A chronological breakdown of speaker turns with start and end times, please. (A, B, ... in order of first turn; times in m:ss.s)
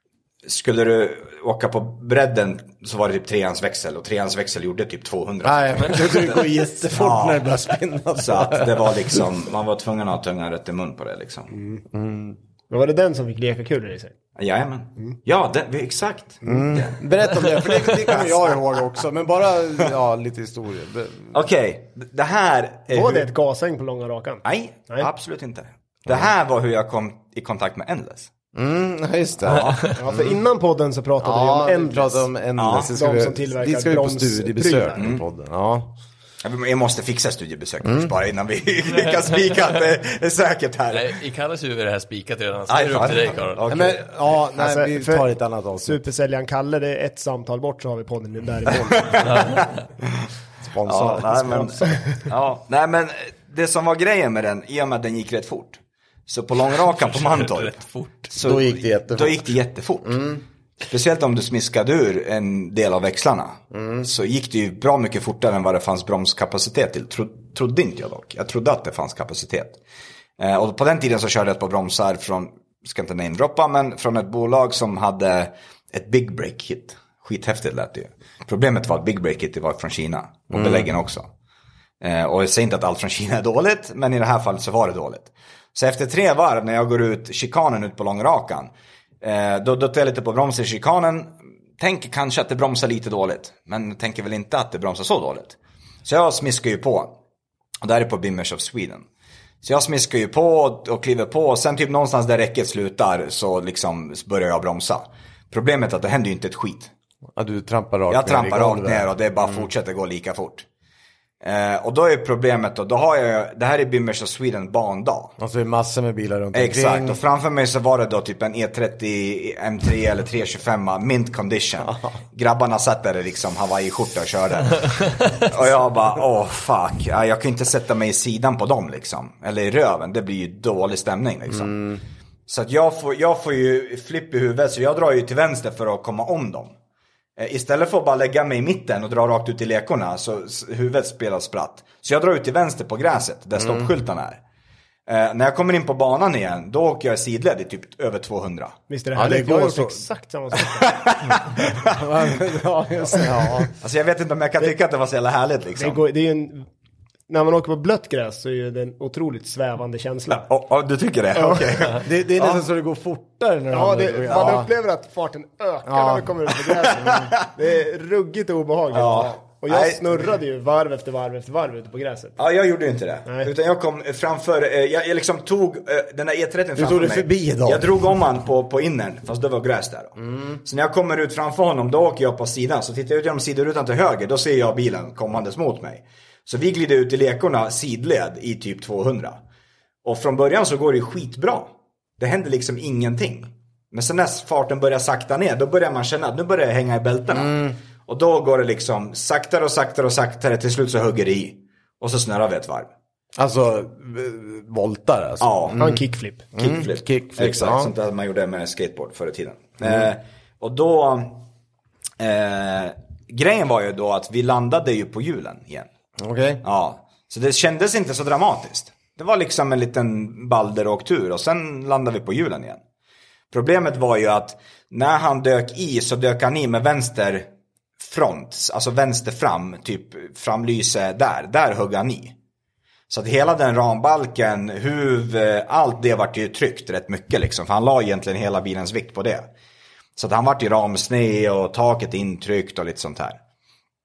0:00.4-0:07.4 A
0:05.4-0:09.2 B
0:08.2-0:11.5 A
0:11.5-0:11.8 C
0:11.9-0:12.4 B
0:12.7-0:14.1 C
0:14.4-0:17.0 A
0:16.4-0:21.3 B
0:18.1-0:18.5 A
0:21.3-0:23.3 A
0:22.9-0:25.1 C
0:24.4-0:28.3 A
0:28.5-0:29.9 B
0:29.5-0:30.0 A
0:29.9-0:32.3 C
0:31.2-0:35.9 B
0:32.6-0:32.9 A
0:32.8-0:35.0 C
0:35.0-0:35.2 A
0:36.4-0:41.1 A
0:37.8-0:38.1 B
0:40.9-0:43.6 D
0:42.7-0:44.0 A
0:43.7-0:46.0 B
0:44.5-0:45.3 C
0:45.8-0:49.6 C
0:50.6-0:51.8 B
0:50.8-1:00.3 A
0:51.5-0:52.1 C
0:56.7-0:58.2 D
0:58.3-1:00.4 B
1:00.8-1:09.8 A
1:03.7-1:04.1 B
1:10.4-1:21.3 A
1:20.5-1:20.9 B
1:22.0-1:28.7 A
1:29.2-1:37.1 A
1:37.8-1:39.0 A
1:39.6-1:46.9 A
1:47.4-1:49.6 B
1:48.1-1:50.6 A
1:51.4-1:55.3 A
1:55.4-1:57.2 B
1:56.5-2:11.8 A
2:01.8-2:02.1 B
2:11.5-2:12.0 B
2:12.5-2:16.7 A
2:17.4-2:24.4 A
2:23.6-2:23.9 B
2:25.1-2:28.8 A
2:28.9-2:31.0 C
2:29.1-2:30.0 B
2:30.8-2:32.0 A
2:31.8-2:33.7 B
2:33.8-2:36.0 A
2:35.8-2:36.7 C
2:37.3-2:40.5 C
2:40.5-2:42.6 A
2:41.4-2:41.8 C
2:41.9-2:44.7 B
2:43.7-2:52.4 C
2:45.8-2:46.5 B
2:48.9-2:50.2 A
2:52.4-3:09.4 A
2:56.8-2:57.9 B
3:10.0-3:22.9 A
3:17.3-3:17.7 B
3:23.4-3:26.0 B
3:25.4-3:25.8 A
3:25.8-3:26.4 C
3:26.5-3:27.9 B
3:26.6-3:31.4 A
3:32.2-3:35.9 A
3:36.2-3:36.6 B
3:36.6-3:42.8 A
3:43.5-3:47.5 A
3:48.0-3:52.3 A
3:53.1-3:59.5 A
4:00.2-4:03.4 A